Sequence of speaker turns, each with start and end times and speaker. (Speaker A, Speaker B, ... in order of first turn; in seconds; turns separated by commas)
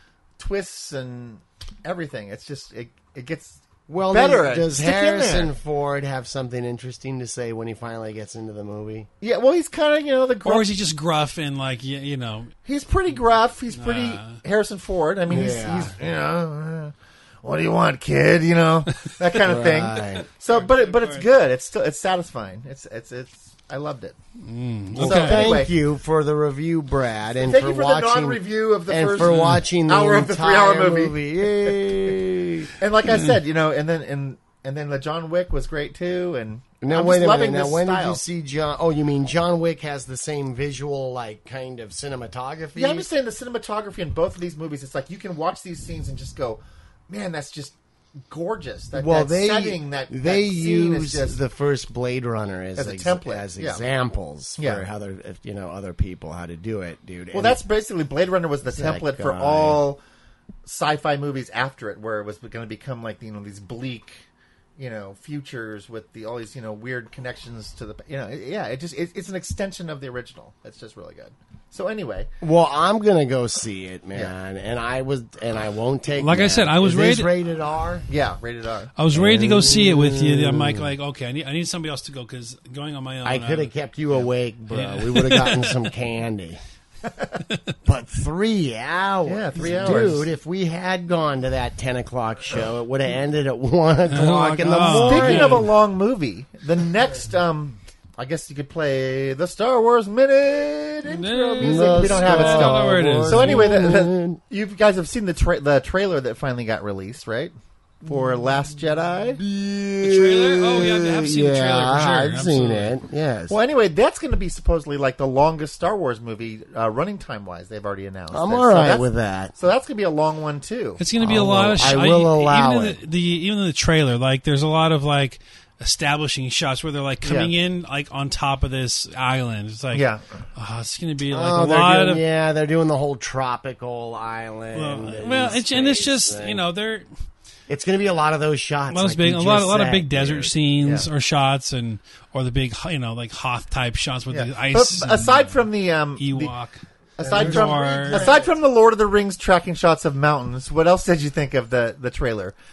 Speaker A: 0.4-5.5, Speaker B: 3.9-9.1, Speaker A: 9.2-10.7, Speaker C: 10.4-12.5, Speaker A: 12.7-24.2, Speaker C: 13.7-14.4, Speaker B: 15.3-16.0, Speaker B: 19.4-20.3, Speaker C: 20.5-21.2, Speaker C: 24.4-25.5, Speaker A: 25.0-25.7, Speaker B: 25.0-32.7, Speaker A: 27.4-32.2, Speaker C: 29.2-29.6, Speaker A: 32.7-38.2, Speaker B: 36.8-43.1, Speaker A: 42.8-47.8, Speaker A: 48.3-51.4, Speaker B: 48.9-57.6, Speaker A: 52.8-53.8, Speaker A: 54.6-54.9, Speaker A: 57.3-60.0, Speaker B: 58.7-59.8, Speaker A: 60.6-64.2, Speaker A: 64.8-72.3, Speaker B: 72.4-78.1, Speaker C: 76.2-77.3, Speaker A: 78.1-78.9, Speaker C: 79.0-83.7, Speaker B: 79.1-80.9, Speaker B: 83.2-86.6, Speaker C: 84.7-85.8, Speaker B: 87.8-95.7, Speaker A: 89.3-90.3, Speaker C: 94.1-95.7, Speaker A: 94.9-109.4, Speaker C: 101.1-103.7, Speaker B: 101.6-104.4, Speaker B: 109.4-113.6, Speaker C: 110.0-113.0, Speaker A: 113.5-121.0, Speaker B: 118.3-119.5, Speaker C: 121.0-132.2, Speaker B: 121.2-123.0, Speaker A: 127.2-127.5, Speaker A: 129.9-130.2, Speaker B: 131.3-136.6, Speaker C: 134.7-137.1, Speaker B: 137.7-140.5, Speaker C: 138.9-145.7, Speaker A: 140.8-141.1, Speaker A: 144.3-146.5, Speaker C: 146.2-148.3, Speaker A: 147.2-152.5, Speaker B: 147.2-148.5